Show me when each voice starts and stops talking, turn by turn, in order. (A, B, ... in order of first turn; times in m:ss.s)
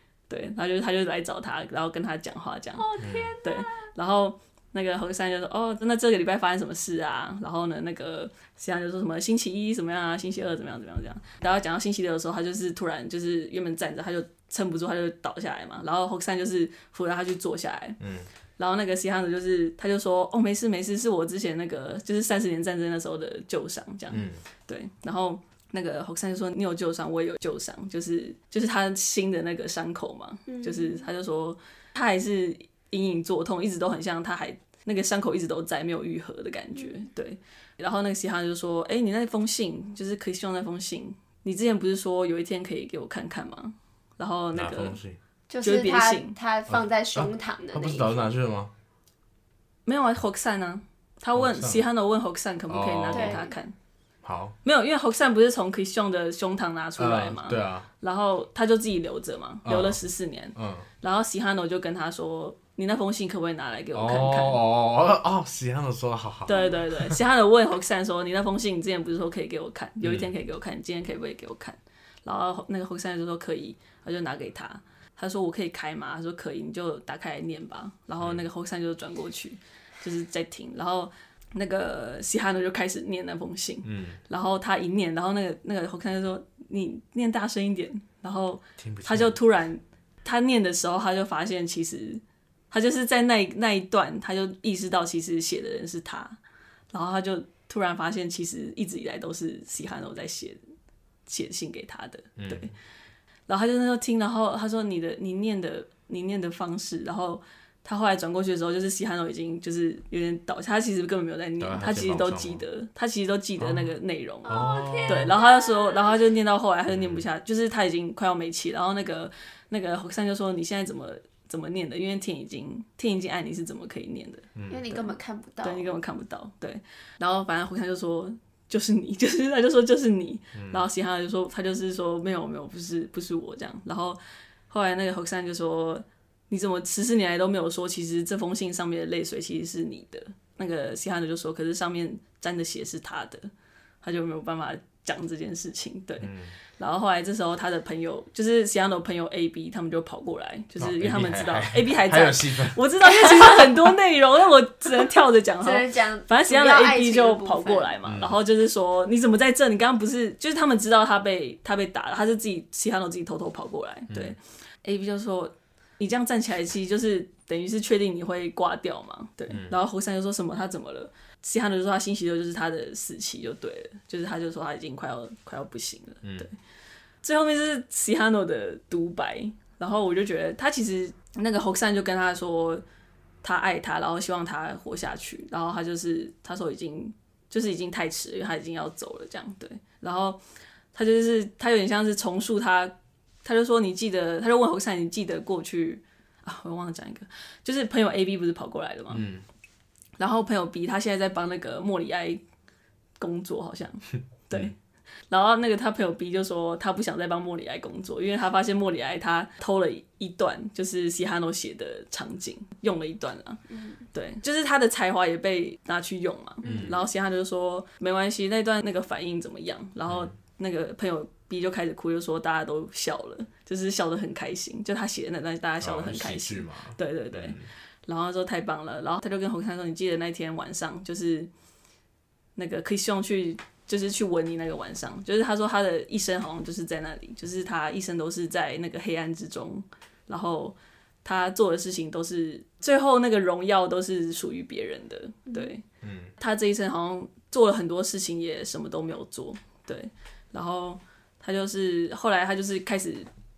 0:00.3-0:18.0 A
0:02.8-0:03.7 B
0:03.0-0:03.3 C
0:18.0-0:18.3 C
0:18.6-0:45.0 A
0:24.1-0:24.4 C
0:30.5-0:31.1 B
0:44.5-0:45.2 C
0:45.5-0:48.2 B
0:45.6-0:46.4 A
0:46.7-0:48.7 C
0:49.9-0:53.7 A
0:51.4-0:51.8 C
0:52.7-0:53.4 C
0:53.1-0:53.5 B
0:54.2-0:54.6 C
0:54.6-1:04.6 A
0:57.0-0:57.9 C
0:59.6-1:00.0 C
1:00.6-1:00.9 C
1:03.9-1:07.2 C
1:06.5-1:36.4 A
1:10.0-1:10.3 C
1:23.8-1:24.2 C
1:28.8-1:29.4 C
1:36.9-1:40.6 A
1:41.3-1:42.7 A
1:42.4-1:42.7 C
1:43.5-2:23.5 A
1:51.6-1:52.6 C
1:53.6-1:53.9 C
1:54.4-1:56.2 B
1:54.5-1:55.4 C
1:56.9-1:57.2 C
2:04.6-2:04.8 C
2:04.7-2:05.9 B
2:10.5-2:10.8 C
2:24.0-2:56.5 A
2:26.2-2:26.6 C
2:30.8-2:32.8 C
2:35.6-2:38.0 B
2:38.1-2:38.4 C
2:44.1-2:44.4 C
2:49.5-2:49.8 C
2:56.2-2:56.5 C
2:57.2-3:02.8 A
3:03.4-3:10.4 A
3:10.9-3:19.2 A
3:19.1-3:19.4 C
3:20.2-3:22.4 A
3:23.2-3:24.8 A
3:25.3-3:33.6 A
3:34.1-3:51.5 A
3:36.6-3:37.0 B
3:36.6-3:37.0 C
3:40.1-3:40.3 C
3:45.8-3:47.7 C
3:52.6-4:05.8 A
4:06.0-4:06.3 C
4:06.4-4:13.3 A